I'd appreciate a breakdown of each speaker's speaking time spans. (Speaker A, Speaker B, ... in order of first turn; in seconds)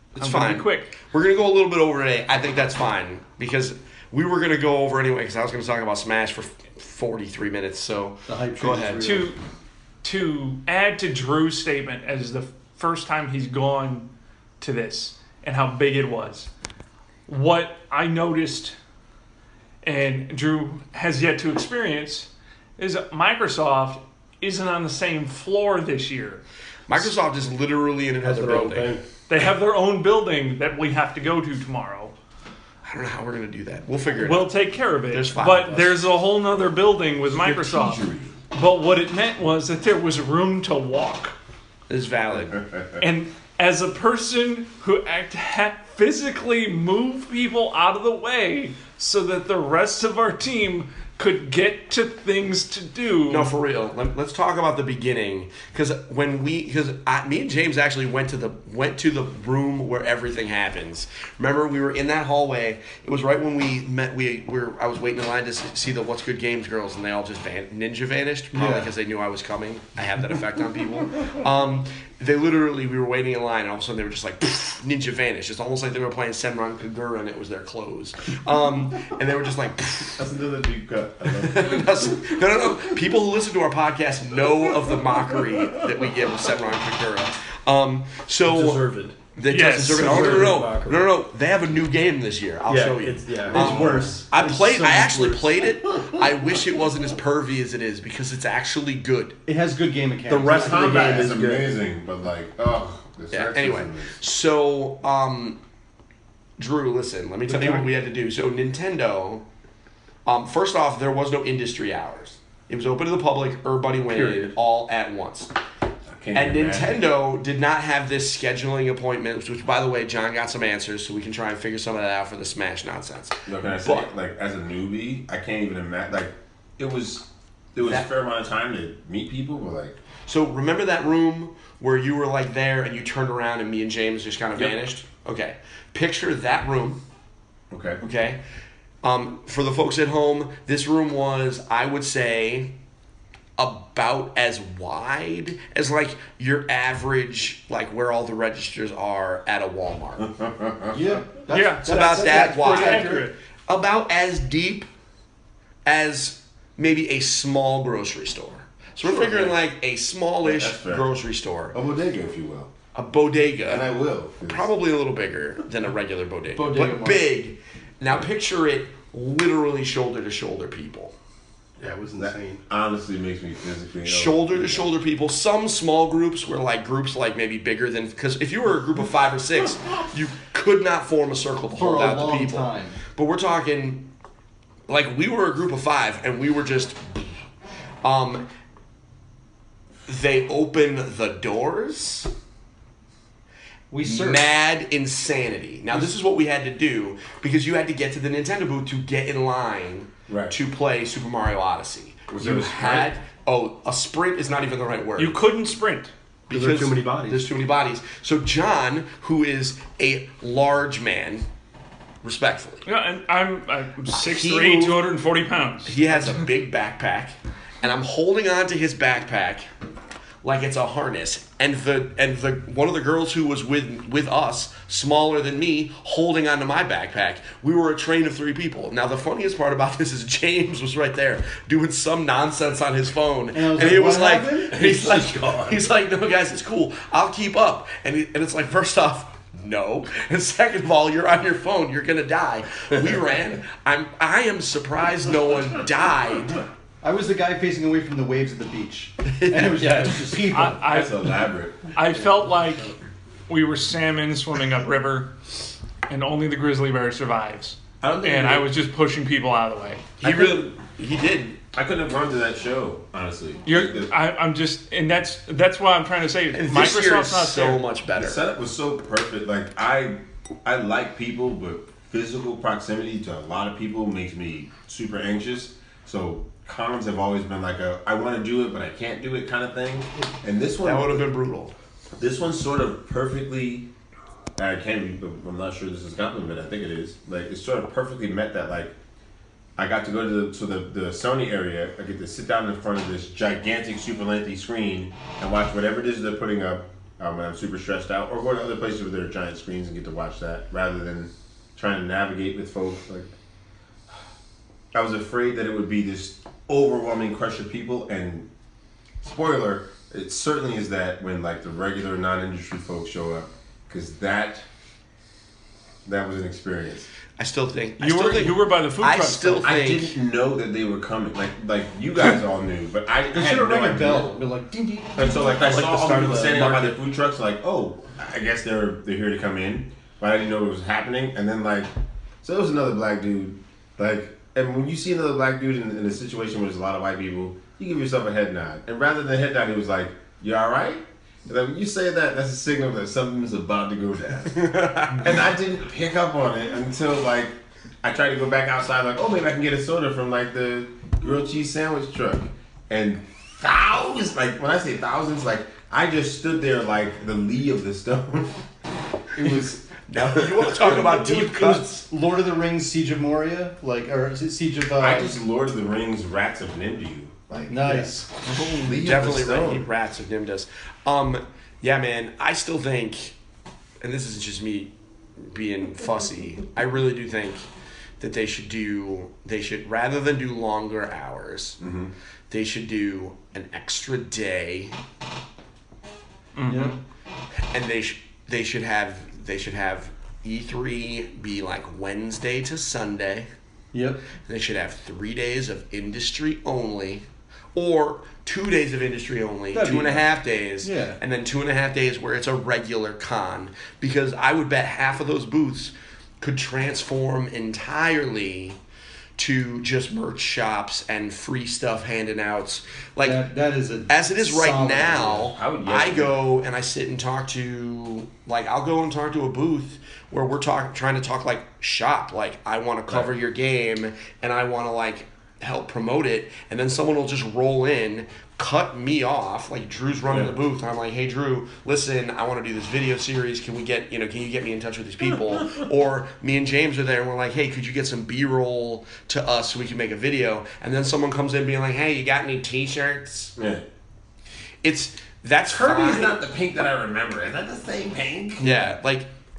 Speaker A: 0.2-9.1, 26.9-29.0, 32.8-36.0, 41.9-42.6, 53.3-80.2, 81.3-88.8, 89.4-99.4, 103.3-105.6, 106.6-109.5, 110.2-115.5, 116.3-124.1, 127.8-128.1, 130.3-137.0, 138.0-138.4, 139.0-142.7, 143.6-150.3, 151.8-154.9, 155.8-161.8, 162.9-163.9, 164.4-171.1, 174.1-184.1, 184.9-187.3, 188.0-188.5, 190.1-192.3, 194.0-205.4, 206.5-211.5, 212.2-212.8, 214.1-215.0, 215.9-219.7, 220.4-246.6, 249.2-249.9, 260.2-261.6, 266.5-268.4, 280.8-281.8, 317.4-320.1, 344.6-345.3, 360.1-362.0, 369.0-373.4, 374.0-377.6, 378.2-381.8, 382.5-385.0, 387.6-393.5, 394.4-408.8, 409.4-413.4, 414.1-443.5, 444.8-446.4, 448.6-449.3
Speaker B: 0.2-0.9, 9.0-9.4, 10.0-14.1, 14.6-16.5, 17.3-18.8, 19.8-26.4, 29.3-32.1, 34.2-41.4, 43.0-53.5, 89.5-90.5, 151.5-153.3, 205.2-206.1, 212.9-216.4, 250.5-251.2, 251.9-252.9, 253.5-255.4, 256.1-260.1, 263.6-267.8, 318.0-319.7, 386.6-387.0
Speaker C: 8.3-9.3, 68.5-68.9, 93.6-95.6, 99.5-101.4, 107.5-107.9, 114.1-114.5, 150.9-153.3, 166.6-167.3, 181.8-183.0, 193.9-194.4, 233.5-235.0, 247.0-251.0, 323.3-326.5, 360.8-365.4, 367.7-369.0, 386.7-387.0, 393.9-394.2, 399.7-400.2, 400.8-401.2, 413.2-415.5
Speaker D: 28.2-29.0, 88.5-89.2, 89.8-91.1, 92.7-94.2, 100.3-101.7, 171.8-172.6, 206.5-207.5, 234.8-235.7, 249.8-250.5, 325.4-326.9
Speaker E: 37.3-38.4, 42.4-43.0, 80.2-82.2, 93.5-94.0, 100.4-104.2, 116.1-117.1, 123.5-130.0, 137.7-138.0, 150.2-151.0, 159.1-159.5, 160.4-161.1, 161.7-162.7, 163.7-164.7, 172.2-174.9, 200.3-200.6, 202.3-203.1, 250.8-252.0, 258.0-258.7, 260.2-260.7, 261.7-264.1, 268.2-281.3, 282.2-283.9, 284.6-289.0, 289.8-303.4, 304.9-308.5, 309.2-314.7, 316.1-317.1, 319.6-324.3, 325.2-331.9, 332.4-358.6, 359.4-359.8, 365.0-369.9, 381.8-382.1, 415.4-416.4, 430.3-430.6, 443.6-443.9, 445.7-448.8